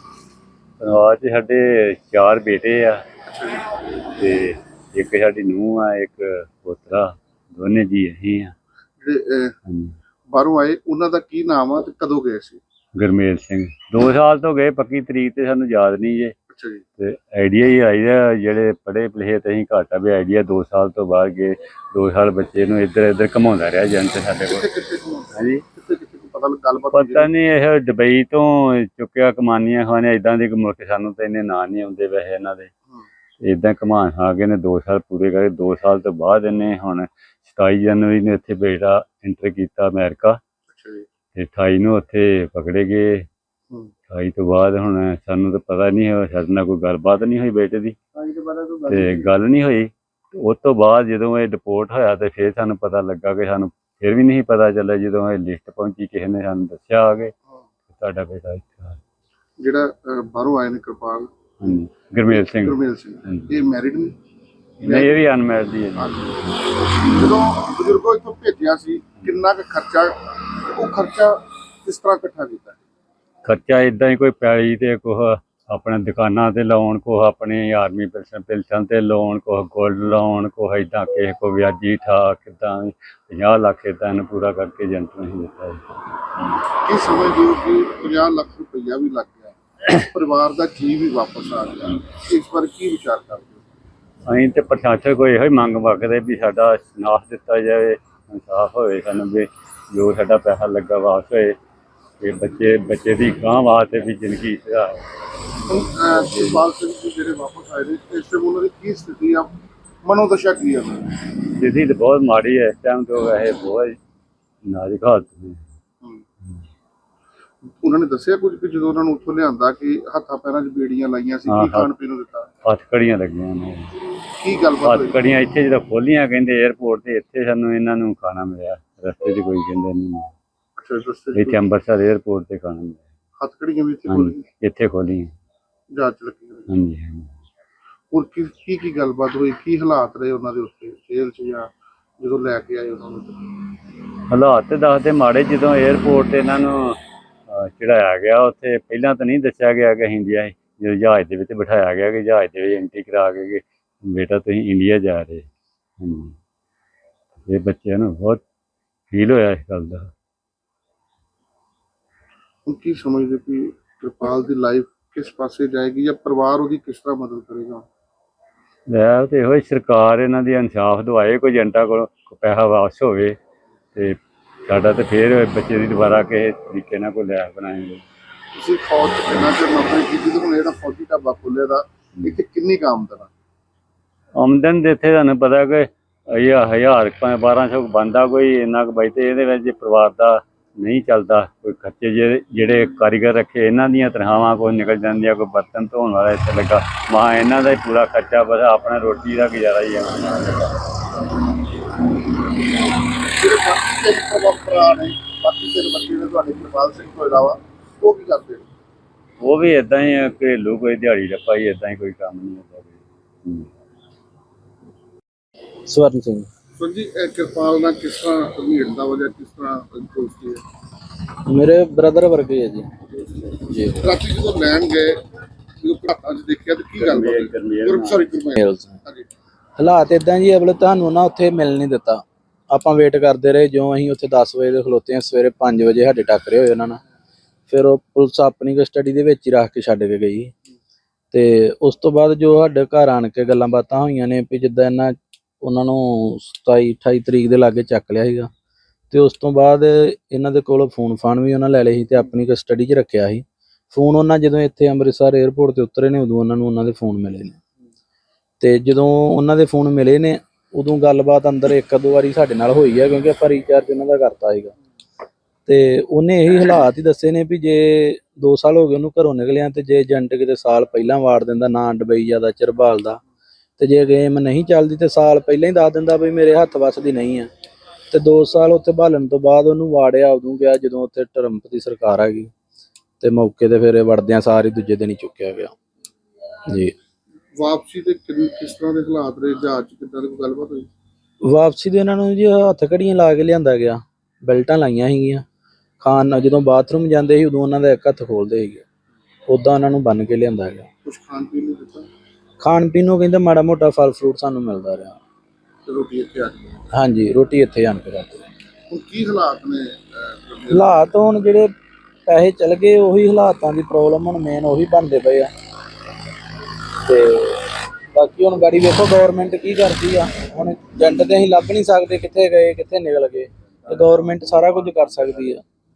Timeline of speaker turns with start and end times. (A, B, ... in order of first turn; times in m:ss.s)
0:00.8-0:03.0 A
0:03.2-0:03.7 B
0:04.1-0:08.5 A
0:09.0-0:09.5 B
0:09.6-0:10.0 A
0:10.3-0:12.6 B
0:13.0-0:16.3 A
0:16.5-0:16.8 B
0:17.0-0:24.6 A
0:24.4-0:27.3 B
0:25.3-0:25.6 A
0:26.9-0:32.7 A
0:33.4-0:40.4 A
0:40.7-0:41.1 B
0:41.3-0:43.2 A
0:44.1-0:48.0 A
0:48.1-0:49.3 B
0:48.9-0:57.3 A
0:57.9-0:59.0 A
0:59.6-1:01.3 B
1:01.6-1:03.5 A
1:02.3-1:04.1 B
1:04.8-1:05.2 B
1:04.8-1:06.1 A
1:06.0-1:12.8 B
1:13.4-1:25.8 A
1:26.8-1:33.6 B
1:34.3-1:41.6 A
1:42.2-1:46.6 A
1:45.7-1:51.2 B
1:51.5-1:54.0 A
1:54.6-1:55.6 A
1:57.6-2:02.5 B
2:01.5-2:01.9 A
2:02.6-2:04.0 A
2:04.3-2:05.2 B
2:04.8-2:10.3 A
2:10.8-2:11.6 B
2:11.3-2:13.0 A
2:13.4-2:14.4 B
2:14.1-2:15.3 A
2:15.9-2:16.7 B
2:16.7-2:17.3 A
2:18.1-2:23.4 B
2:24.3-2:27.0 A
2:27.5-2:35.5 A
2:36.0-2:36.3 A
2:37.4-2:38.4 A
2:39.1-2:40.1 A
2:42.6-2:47.8 B
2:48.9-2:53.4 A
2:53.9-2:58.0 A
2:58.5-3:03.3 B
3:04.4-3:20.8 A
3:23.0-3:28.7 B
3:29.4-3:33.7 A
3:35.9-3:36.5 C
3:36.8-3:40.6 B
3:41.5-3:42.9 C
3:43.6-3:44.0 C
3:44.0-3:45.2 B
3:45.8-3:49.3 B
3:47.0-3:48.2 A
3:48.6-3:49.0 C
3:49.8-3:57.0 C
3:57.7-4:00.5 C
4:01.3-4:08.5 C
4:09.1-4:17.6 C
4:18.6-4:24.7 C
4:25.6-4:33.2 C
4:33.8-4:37.5 C
4:38.1-4:42.5 C
4:43.2-4:45.7 C
4:46.7-4:46.9 C
4:47.6-4:50.9 B
4:51.5-4:55.4 C
4:56.0-4:58.8 C
4:59.5-5:00.9 C
5:01.0-5:02.1 B
5:02.6-5:05.2 C
5:05.8-5:06.8 B
5:06.9-5:08.4 C
5:08.9-5:11.0 B
5:10.7-5:11.7 C
5:12.2-5:15.5 C
5:17.0-5:25.6 C
5:23.8-5:25.4 A